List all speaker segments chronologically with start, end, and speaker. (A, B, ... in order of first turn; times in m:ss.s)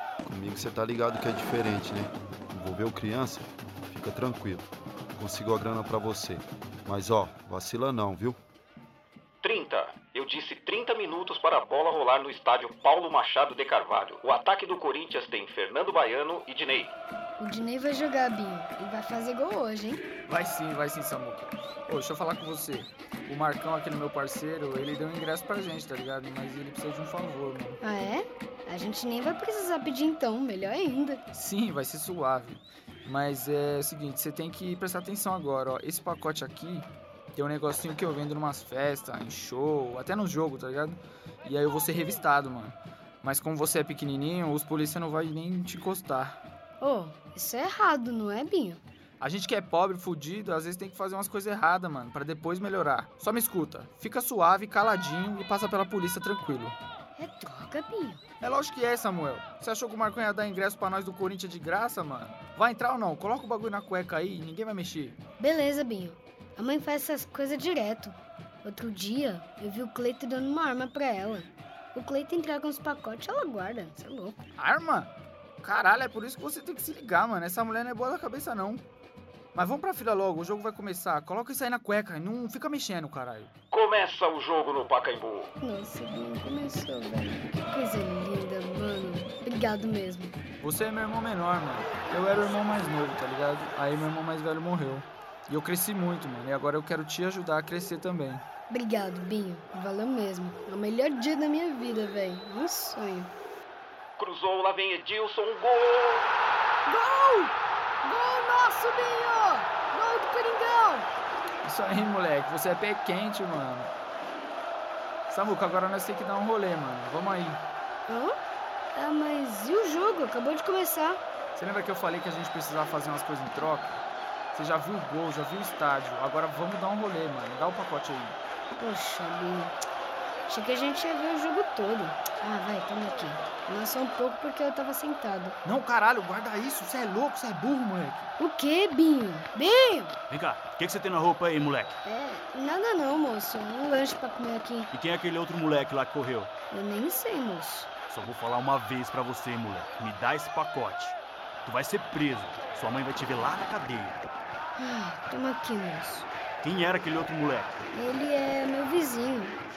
0:00.2-0:08.4 A
0:09.4-0:16.9 B
0:17.4-0:20.0 C
0:20.3-0:27.8 D
0:27.8-0:31.2 C
0:31.3-0:46.4 D
0:46.8-0:48.8 C
0:49.2-0:56.8 D
0:57.2-0:58.2 C
0:58.4-1:05.2 D
1:05.4-1:14.4 C
1:14.6-1:18.8 D
1:19.5-1:23.5 D
1:23.7-1:25.5 B
1:25.6-1:30.4 C
1:30.6-1:38.4 D
1:38.7-1:43.3 C
1:44.2-1:46.3 B
1:46.8-1:51.1 C
1:51.6-1:53.9 D
1:55.3-1:57.6 D
1:58.1-1:58.3 C
1:58.9-2:01.2 C
2:01.5-2:08.4 D
2:08.8-2:09.8 C
2:10.5-2:15.6 C
2:15.6-2:18.3 D
2:18.4-2:20.2 C
2:20.3-2:22.0 E
2:22.0-2:24.9 C
2:24.9-2:26.5 E
2:26.7-2:27.9 C
2:28.1-2:34.2 E
2:34.8-2:36.3 C
2:36.6-2:37.8 E
2:37.9-2:39.6 C